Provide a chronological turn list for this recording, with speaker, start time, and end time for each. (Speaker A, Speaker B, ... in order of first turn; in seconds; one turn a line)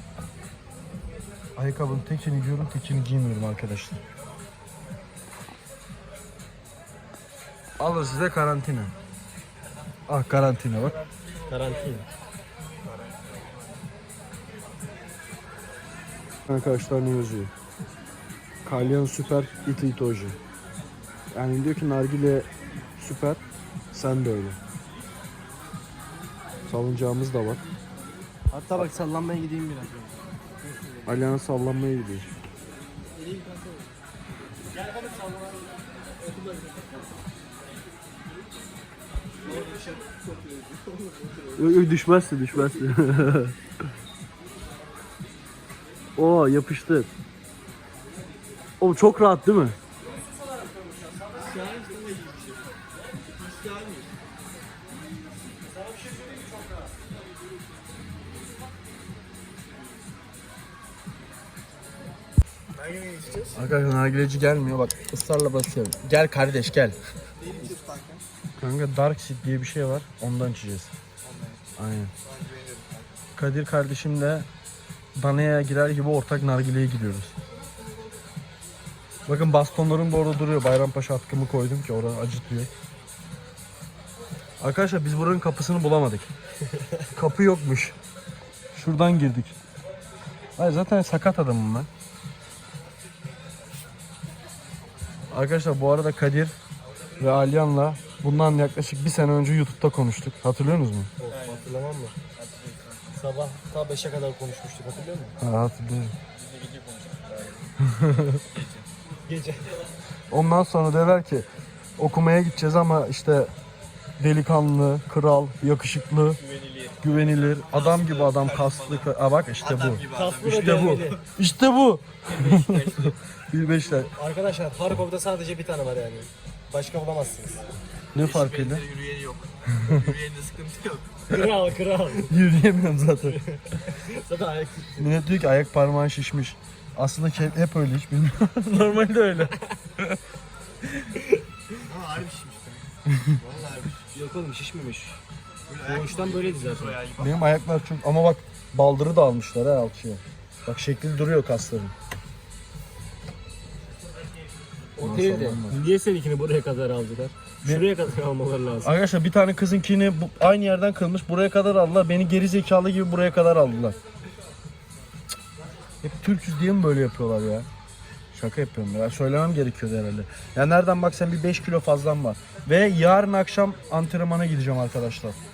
Speaker A: 1.6-4.0
Speaker A: 7.8-8.9
Speaker A: 10.1-11.0
Speaker B: 11.5-12.1
Speaker C: 12.9-13.6
Speaker A: 16.5-17.5
Speaker A: 18.6-20.4
Speaker A: 21.3-23.4
Speaker A: 23.9-24.6
Speaker A: 26.7-27.6
Speaker B: 28.5-30.3
Speaker A: 31.1-32.3
Speaker C: 33.2-33.9
Speaker C: 34.8-35.3
Speaker C: 39.4-41.7
Speaker A: 41.5-43.6
Speaker A: 46.2-47.1
Speaker A: 48.8-49.8
Speaker C: 51.3-54.1
Speaker C: 62.8-63.6
Speaker A: 63.5-67.0
Speaker C: 67.4-68.2
Speaker A: 68.6-70.9
Speaker C: 71.2-71.6
Speaker A: 71.8-72.1
Speaker C: 72.2-73.2
Speaker A: 73.3-74.5
Speaker A: 75.2-77.3
Speaker A: 79.3-82.7
Speaker A: 84.6-86.3
Speaker A: 87.0-88.0
Speaker A: 88.7-89.6
Speaker A: 90.6-91.9
Speaker A: 95.3-96.6
Speaker A: 97.2-101.1
Speaker B: 101.2-102.2
Speaker C: 101.3-101.7
Speaker C: 102.4-103.2
Speaker B: 103.1-105.3
Speaker A: 105.4-106.2
Speaker C: 106.3-107.7
Speaker A: 107.9-108.4
Speaker C: 108.4-108.9
Speaker B: 109.3-109.7
Speaker A: 110.3-111.5
Speaker A: 112.0-113.5
Speaker A: 114.2-116.4
Speaker C: 116.4-121.2
Speaker A: 117.0-124.1
Speaker B: 120.1-121.2
Speaker C: 122.3-123.2
Speaker B: 124.2-127.7
Speaker A: 128.2-128.8
Speaker C: 128.2-131.2
Speaker B: 131.3-132.4
Speaker A: 132.3-133.4
Speaker B: 133.2-135.1
Speaker A: 135.0-140.2
Speaker C: 141.8-144.1
Speaker B: 144.1-145.2
Speaker C: 145.7-147.5
Speaker B: 145.8-147.0
Speaker A: 147.2-151.9
Speaker B: 155.0-158.9
Speaker A: 155.0-155.8
Speaker A: 158.8-164.0
Speaker A: 166.0-167.7
Speaker A: 168.3-175.4